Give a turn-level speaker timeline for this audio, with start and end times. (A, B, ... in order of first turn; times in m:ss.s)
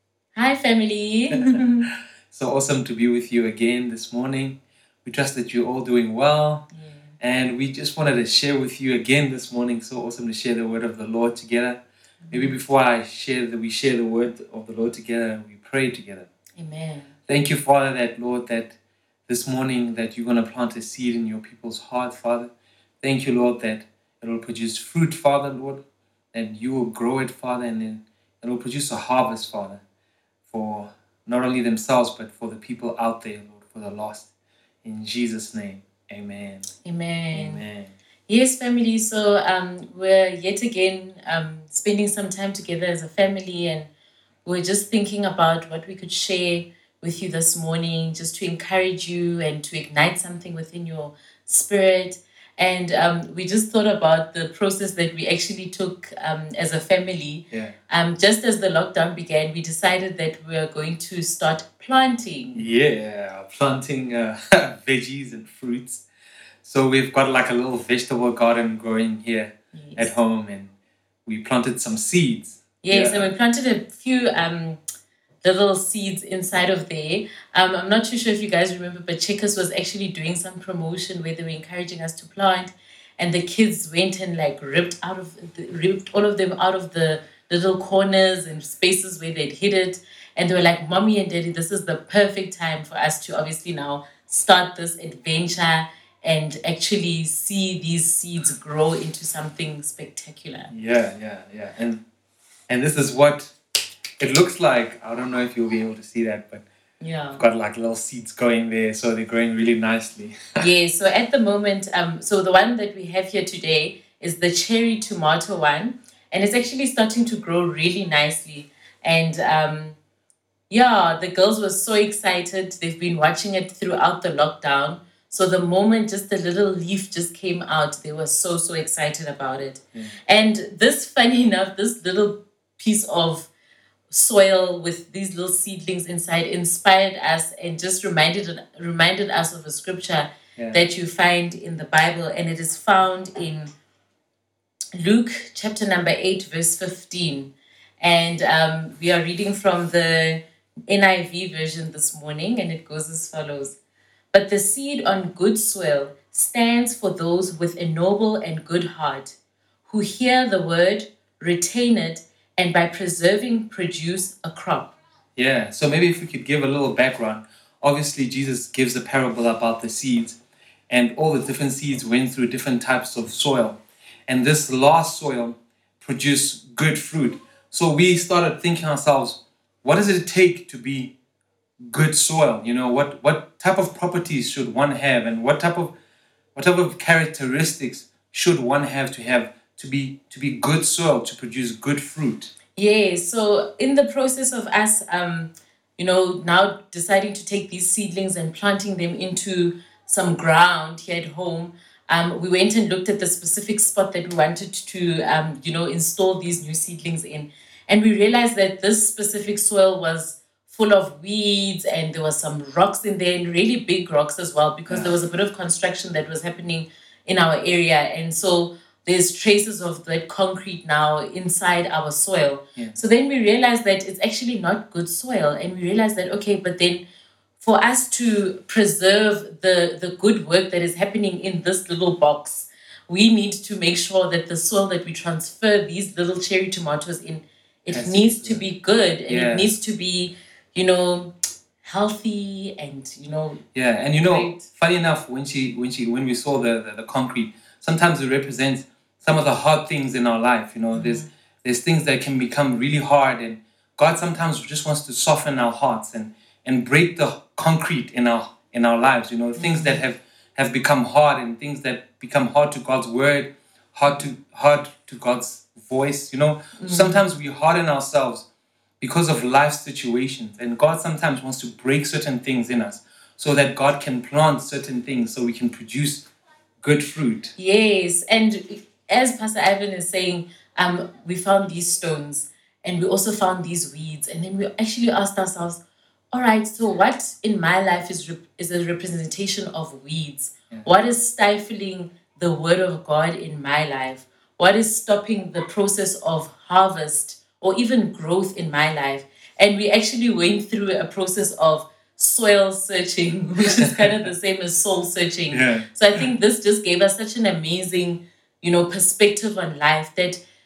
0:00.3-0:01.9 A
0:02.3-0:06.7 B
0:06.7-0:07.1 A
0:07.2-0:16.3 B
0:12.2-0:12.6 A
0:16.6-0:17.1 A
0:17.3-0:18.7 B
0:19.3-0:22.5 B
0:23.0-0:25.8 B
0:26.3-0:29.8 B
0:30.5-0:34.3 B
0:34.8-0:36.7 B
0:36.8-0:37.6 A
0:37.3-0:37.9 B
0:38.3-0:43.9 A
0:44.4-1:02.6 A
1:02.5-1:06.0 B
1:06.6-1:10.7 B
1:09.7-1:10.1 A
1:11.2-1:13.3 B
1:12.8-1:14.8 A
1:15.4-1:40.7 A
1:40.7-1:42.0 B
1:42.7-1:43.5 B
1:44.2-1:46.6 B
1:47.0-1:47.4 A
1:47.4-1:50.6 B
1:50.6-2:00.0 A
2:00.7-2:13.5 A
2:14.1-2:23.7 A
2:20.6-2:20.8 B
2:24.9-2:33.8 A
2:34.3-2:39.4 A
2:39.9-2:44.9 A
2:45.4-2:50.4 B
2:50.9-3:01.1 B
3:01.9-3:05.9 B
3:06.6-3:12.5 B
3:12.8-3:47.0 A
3:34.9-3:35.1 B
3:47.6-4:03.6 A
3:57.9-3:58.6 B
3:59.3-3:59.7 B
4:03.7-4:28.4 B
4:04.2-4:04.6 A
4:10.9-4:11.3 A
4:19.6-4:20.0 A
4:26.8-4:27.2 A
4:29.0-4:36.3 B
4:36.8-4:37.5 B
4:37.6-4:45.8 A
4:46.3-5:10.4 A
5:05.5-5:05.9 B